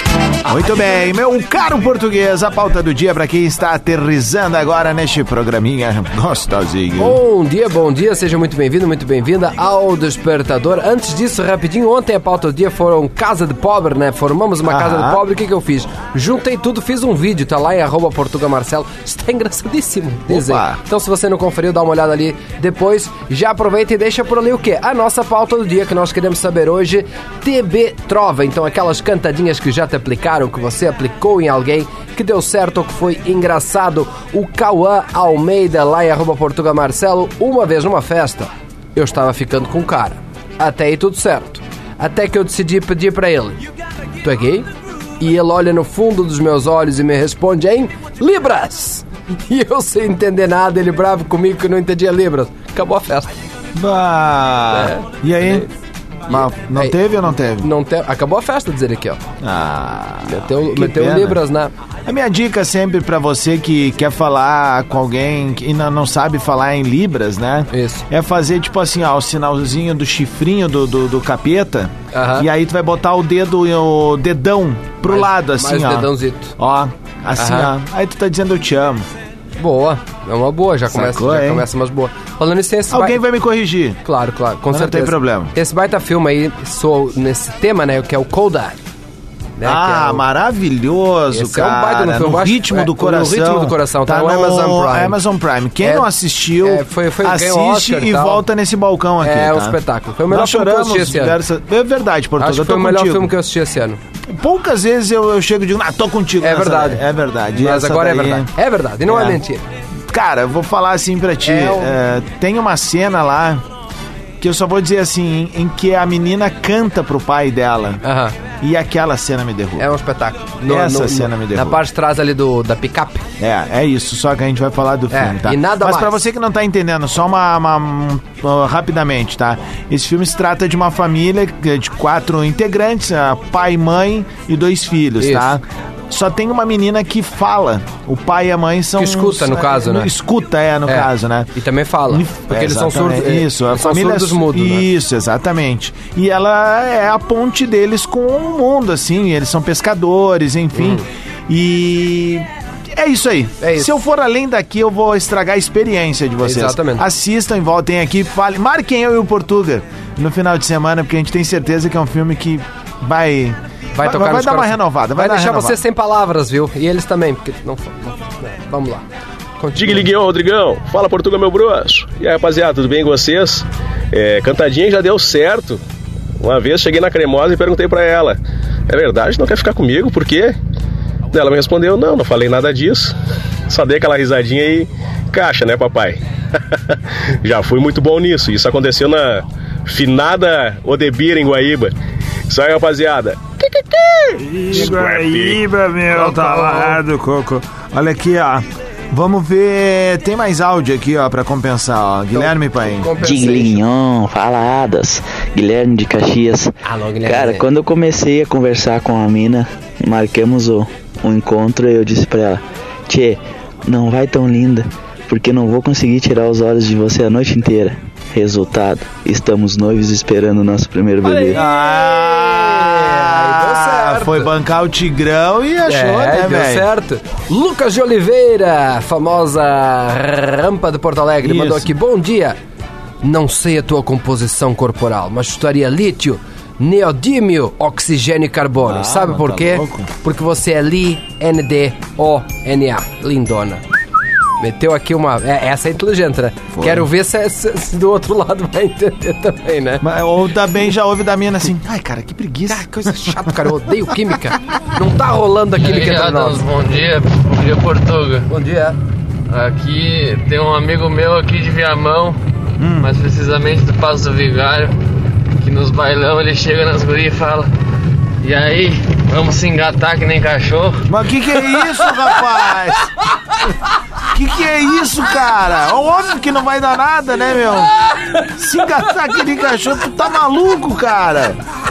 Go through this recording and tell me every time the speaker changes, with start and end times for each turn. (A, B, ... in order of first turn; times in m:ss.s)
0:00.4-0:07.2 A
0:07.0-0:43.6 B
0:14.6-0:15.2 A
0:20.3-0:20.8 A
0:44.2-0:44.7 B
0:45.2-0:53.4 B
0:53.8-0:55.7 A
0:54.7-0:55.7 B
0:56.3-0:57.7 A
0:56.3-0:57.0 B
0:57.6-0:59.2 B
0:59.4-1:01.4 A
1:00.2-1:01.7 B
1:02.1-1:19.1 A
1:07.7-1:08.1 B
1:12.1-1:12.5 B
1:15.0-1:16.6 B
1:17.4-1:17.7 B
1:19.6-1:23.2 B
1:20.9-1:21.7 A
1:22.9-1:24.0 A
1:24.0-1:28.8 B
1:24.7-1:25.5 A
1:29.6-1:30.2 B
1:29.6-1:43.3 A
1:31.3-1:35.2 B
1:35.8-1:36.1 B
1:36.6-1:38.4 B
1:39.2-1:41.4 B
1:42.4-1:44.0 B
1:44.3-1:48.5 A
1:46.4-1:47.0 B
1:47.6-1:49.6 B
1:49.1-1:49.4 A
1:50.1-1:53.6 A
1:51.4-1:52.0 B
1:54.4-1:58.0 A
1:58.0-1:58.4 B
1:58.6-1:59.9 A
1:59.8-2:03.3 B
2:00.6-2:01.8 A
2:03.4-2:21.5 A
2:05.1-2:06.2 B
2:15.2-2:15.5 B
2:19.0-2:20.1 B
2:20.9-2:24.9 B
2:22.1-2:45.8 A
2:30.8-2:31.0 B
2:33.6-2:34.0 B
2:36.4-2:37.0 B
2:44.0-2:49.0 B
2:49.6-2:50.1 B
2:49.8-2:55.8 C
2:56.4-3:00.6 C
3:01.3-3:03.2 C
3:03.7-3:06.2 C
3:06.7-3:11.9 C
3:12.5-3:13.4 C
3:14.3-3:15.6 C
3:14.4-3:23.1 A
3:16.1-3:17.0 B
3:22.3-3:23.9 B
3:23.2-3:26.7 D
3:26.8-3:27.7 B
3:27.2-3:41.6 D
3:41.2-3:44.5 B
3:41.5-3:46.9 A
3:45.9-3:52.6 B
3:51.4-3:51.9 A
3:53.2-4:03.8 B
3:58.8-4:00.1 A
4:04.6-4:10.0 B
4:06.7-4:07.1 A
4:10.0-4:13.6 A
4:12.7-4:16.6 B
4:15.8-4:18.5 E
4:18.5-4:19.0 B
4:19.5-4:22.4 E
4:22.8-4:23.1 A
4:23.0-4:25.0 E
4:25.6-4:27.7 E
4:28.4-4:31.1 E
4:31.1-4:33.1 A
4:31.8-4:32.4 B
4:34.3-4:41.6 A
4:38.0-4:38.5 B